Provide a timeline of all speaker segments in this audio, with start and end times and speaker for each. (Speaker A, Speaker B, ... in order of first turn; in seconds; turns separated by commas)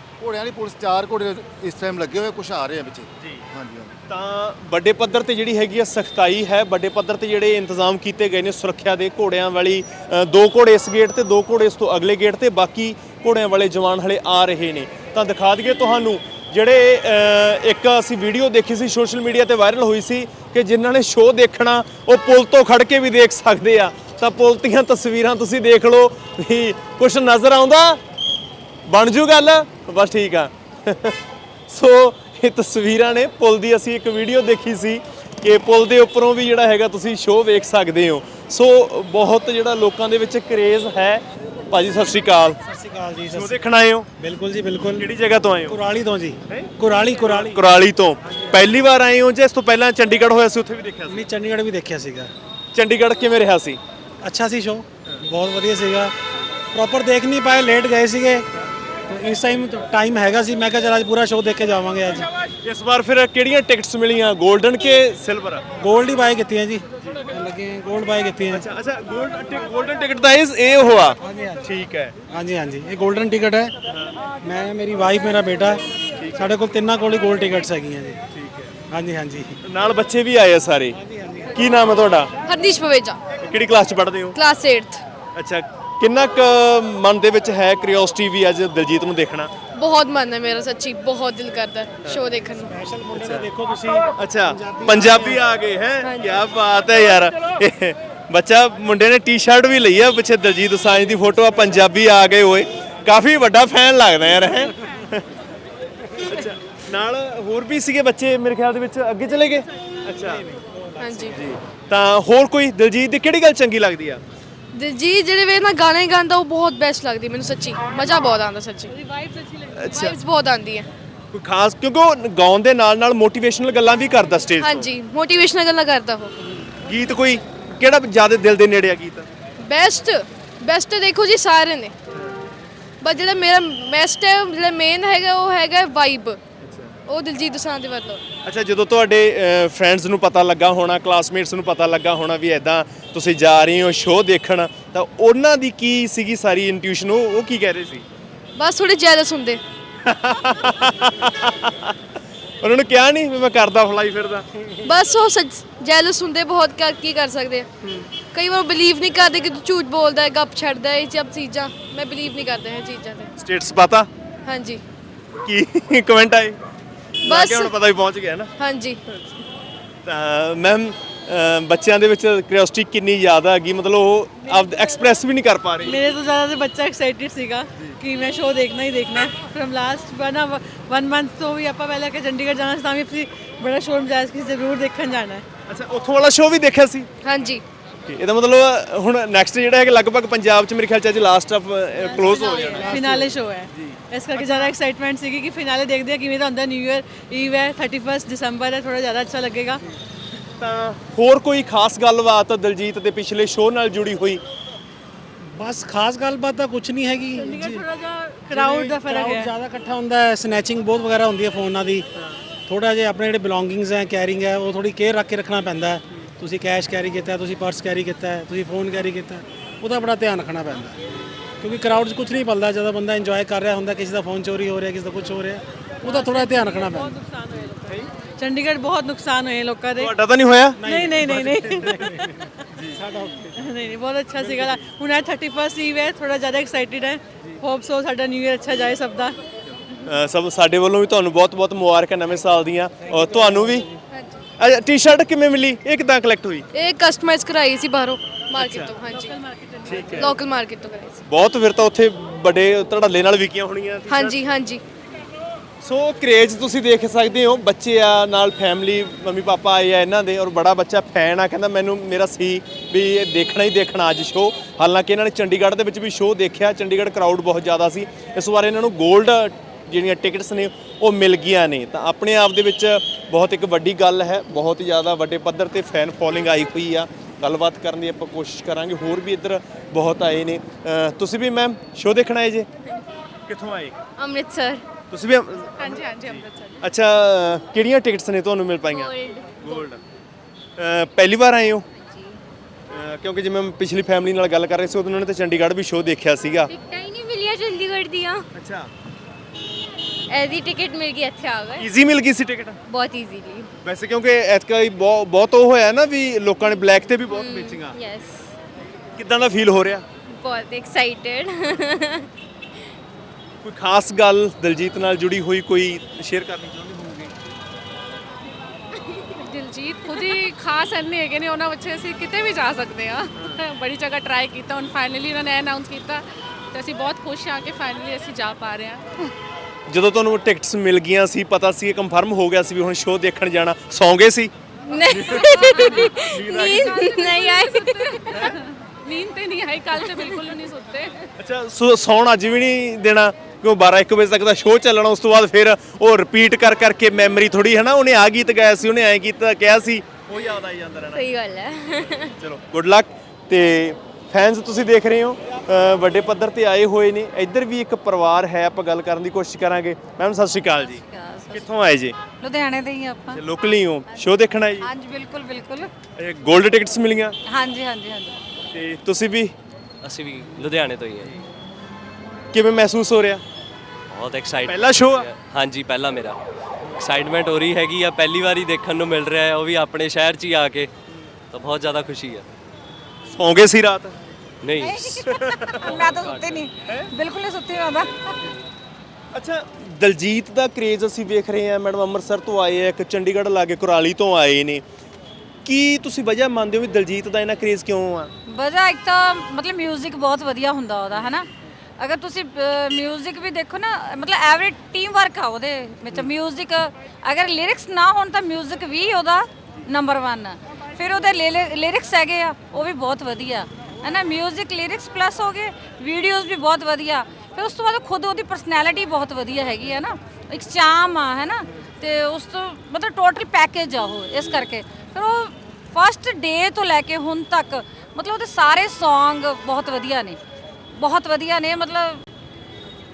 Speaker A: 0.2-3.9, Speaker B: 4.1-28.0, Speaker B: 28.9-31.2, Speaker B: 31.7-42.6, Speaker C: 42.6-43.6, Speaker B: 43.3-44.1, Speaker C: 44.2-45.1, Speaker B: 45.0-45.8, Speaker C: 45.7-47.6, Speaker B: 46.5-51.3, Speaker C: 51.1-52.3, Speaker B: 52.7-53.8, Speaker C: 54.2-56.1, Speaker C: 56.7-58.5, Speaker C: 59.1-62.3, Speaker B: 62.6-65.6, Speaker C: 65.8-68.6, Speaker B: 68.5-72.1, Speaker C: 71.2-71.7, Speaker C: 72.3-73.7, Speaker C: 74.4-75.8, Speaker B: 76.2-76.5, Speaker C: 76.3-78.2, Speaker B: 78.3-78.7, Speaker C: 78.9-79.5, Speaker B: 79.6-81.0, Speaker C: 81.0-81.4, Speaker B: 81.5-82.3, Speaker D: 82.5-83.2, Speaker B: 83.4-84.4, Speaker D: 84.3-85.0, Speaker B: 85.3-89.5, Speaker D: 89.8-92.8, Speaker C: 92.7-95.4, Speaker B: 93.1-93.5, Speaker B: 94.2-105.3, Speaker D: 96.0-96.4, Speaker B: 106.2-110.5, Speaker D: 111.0-111.4, Speaker B: 111.3-114.2, Speaker D: 114.7-118.9, Speaker E: 118.9-119.7, Speaker B: 119.7-120.2, Speaker D: 119.9-120.9, Speaker B: 121.3-124.9, Speaker D: 124.6-126.3, Speaker B: 126.7-129.3, Speaker D: 129.6-131.9, Speaker D: 133.0-136.4, Speaker B: 136.6-136.9, Speaker D: 137.1-138.2, Speaker B: 138.4-148.1, Speaker D: 148.6-149.6, Speaker B: 150.0-151.9, Speaker B: 152.6-154.5, Speaker D: 154.8-163.3, Speaker B: 163.4-164.1, Speaker D: 164.4-164.8, Speaker B: 165.4-166.6, Speaker B: 167.2-168.5, Speaker D: 167.2-167.7, Speaker D: 168.6-169.0, Speaker B: 170.1-176.0, Speaker E: 175.8-185.4, Speaker B: 185.7-187.1, Speaker D: 187.2-187.6, Speaker B: 188.1-193.0, Speaker F: 192.0-192.8, Speaker D: 192.2-192.5, Speaker E: 192.8-199.8, Speaker C: 192.9-193.3, Speaker B: 193.7-194.7, Speaker B: 200.6-204.4, Speaker C: 205.6-207.8, Speaker E: 207.3-209.6, Speaker C: 208.5-212.0, Speaker C: 212.7-220.9, Speaker C: 221.6-227.1, Speaker E: 226.0-230.1, Speaker B: 229.9-230.8, Speaker C: 230.8-232.3, Speaker E: 230.8-232.3, Speaker C: 232.9-233.6, Speaker E: 233.6-239.4, Speaker C: 234.4-234.7, Speaker B: 240.1-243.9, Speaker B: 244.6-246.7, Speaker D: 246.7-249.4, Speaker B: 248.6-248.9, Speaker E: 249.1-250.3, Speaker B: 249.9-250.3, Speaker D: 250.1-251.2, Speaker B: 251.3-254.4, Speaker D: 254.1-254.8, Speaker B: 255.8-282.7, Speaker B: 283.5-283.9, Speaker F: 284.2-284.8, Speaker B: 285.1-290.0, Speaker G: 285.8-286.8, Speaker F: 288.9-289.9, Speaker B: 290.8-291.9, Speaker F: 292.0-292.4, Speaker B: 292.9-296.7, Speaker F: 296.7-298.4, Speaker B: 298.5-298.9, Speaker F: 300.3-301.9, Speaker B: 301.8-302.8, Speaker F: 302.9-303.7, Speaker B: 303.8-307.9, Speaker F: 307.2-308.5, Speaker B: 309.2-310.1, Speaker F: 310.3-312.3, Speaker B: 313.6-317.3, Speaker G: 319.4-329.1, Speaker B: 329.9-334.5, Speaker F: 334.9-338.4, Speaker B: 335.1-337.1, Speaker H: 335.6-336.1, Speaker G: 337.4-341.2, Speaker F: 340.0-340.4, Speaker B: 341.4-351.4, Speaker F: 351.1-352.3, Speaker B: 352.2-361.0, Speaker H: 360.7-361.7, Speaker B: 361.5-362.2, Speaker H: 362.4-363.4, Speaker B: 363.3-364.9, Speaker H: 364.8-365.9, Speaker B: 366.2-367.4, Speaker H: 367.5-368.4, Speaker B: 368.7-369.5, Speaker I: 370.0-371.3, Speaker B: 372.5-373.4, Speaker I: 374.1-376.4, Speaker B: 374.6-375.3, Speaker I: 377.0-380.9, Speaker I: 381.5-382.4, Speaker B: 383.3-384.2, Speaker I: 384.6-385.2, Speaker H: 384.8-388.5, Speaker B: 385.2-385.9, Speaker I: 385.9-386.5, Speaker B: 389.3-394.8, Speaker B: 395.6-398.3, Speaker H: 398.5-401.5, Speaker H: 402.0-430.4, Speaker H: 431.0-432.2